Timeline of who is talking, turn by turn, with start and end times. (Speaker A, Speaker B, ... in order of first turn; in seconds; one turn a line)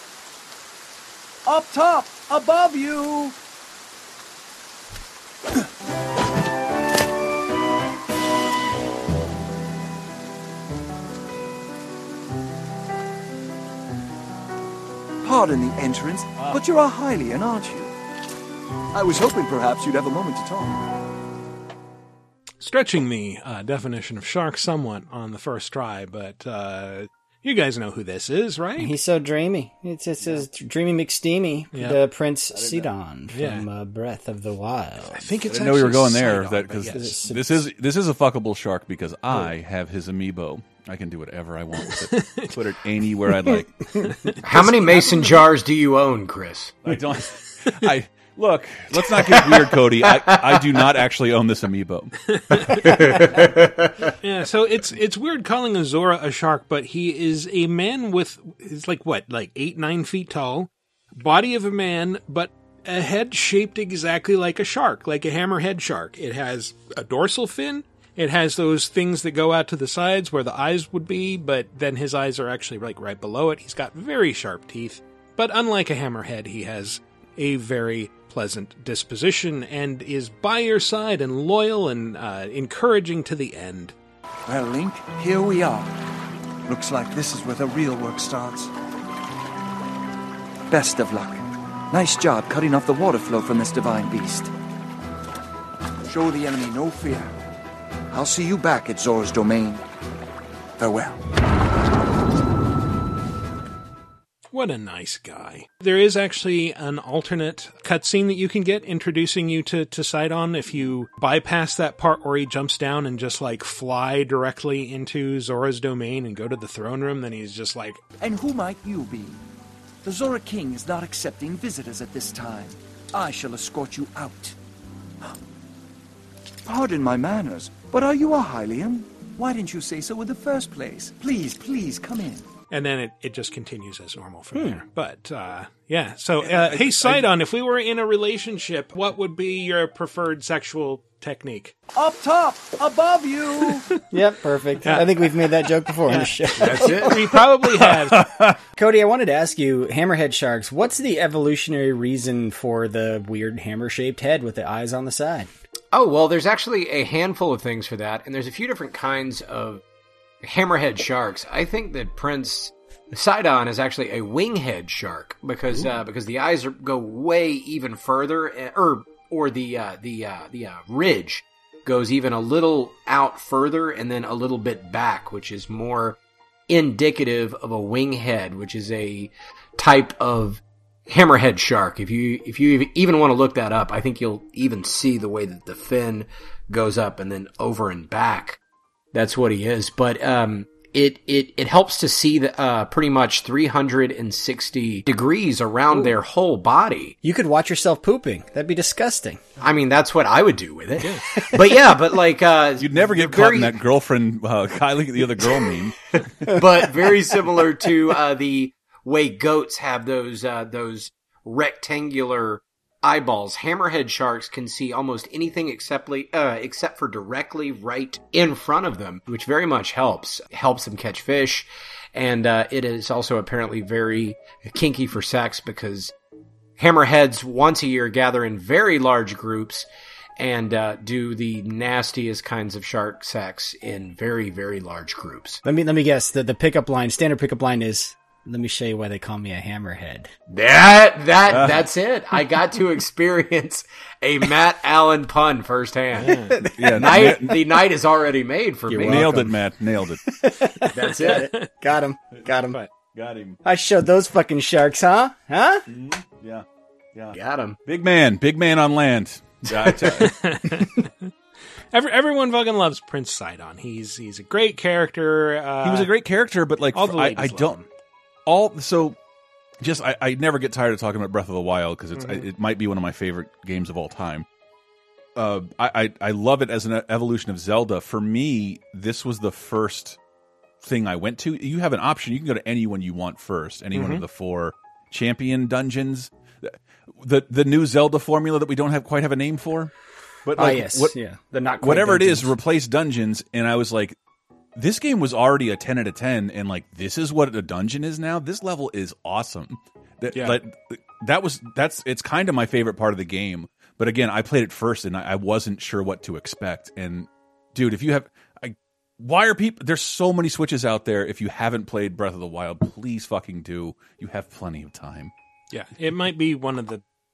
Speaker A: 1.4-3.3
Speaker A: 15.2-17.9
Speaker A: 18.9-20.9
Speaker B: 22.6-28.9
Speaker C: 28.8-35.4
Speaker B: 31.7-32.0
Speaker D: 32.5-32.9
Speaker B: 33.3-33.6
Speaker B: 35.1-37.2
Speaker D: 35.5-44.2
Speaker C: 36.9-37.7
Speaker B: 41.9-42.5
Speaker B: 43.9-44.7
Speaker E: 44.4-46.8
Speaker D: 46.8-52.2
Speaker E: 49.2-50.8
Speaker B: 52.3-52.9
Speaker E: 52.8-54.0
Speaker B: 54.2-84.0
Speaker A: 84.5-85.9
Speaker A: 86.7-88.7
Speaker A: 90.7-94.5
Speaker A: 96.1-97.3
Speaker A: 98.1-99.8
Speaker A: 100.8-101.2
Speaker B: 104.5-118.0
Speaker A: 118.2-119.4
Speaker A: 120.0-124.5
Speaker A: 126.7-132.4
Speaker B: 132.7-141.7
Speaker C: 134.5-134.8
Speaker D: 136.4-137.3
Speaker A: 141.9-143.9
Speaker C: 144.1-147.3
Speaker E: 146.6-147.2
Speaker B: 146.6-148.3
Speaker D: 148.1-148.6
Speaker C: 148.7-155.5
Speaker E: 155.9-159.8
Speaker E: 160.4-188.6
Speaker E: 189.1-197.2
Speaker C: 197.2-199.4
Speaker E: 199.6-203.8
Speaker D: 202.8-206.6
Speaker E: 206.4-226.1
Speaker E: 226.8-235.6
Speaker C: 235.6-240.3
Speaker E: 240.5-249.4
Speaker D: 241.5-241.9
Speaker B: 246.2-246.6
Speaker C: 246.7-247.0
Speaker D: 246.8-247.9
Speaker C: 248.9-249.5
Speaker D: 248.9-250.2
Speaker C: 250.4-252.8
Speaker E: 250.9-251.5
Speaker B: 251.2-251.7
Speaker D: 253.1-253.6
Speaker C: 253.6-255.8
Speaker D: 255.9-260.3
Speaker E: 257.3-257.8
Speaker B: 260.2-261.3
Speaker B: 261.9-266.1
Speaker D: 265.8-267.8
Speaker B: 266.9-267.9
Speaker D: 268.4-269.1
Speaker D: 269.8-274.4
Speaker B: 272.2-272.4
Speaker D: 275.3-280.2
Speaker D: 280.8-289.9
Speaker D: 290.4-291.1
Speaker C: 290.5-292.5
Speaker D: 291.8-294.1
Speaker D: 294.7-315.3
Speaker B: 315.7-317.0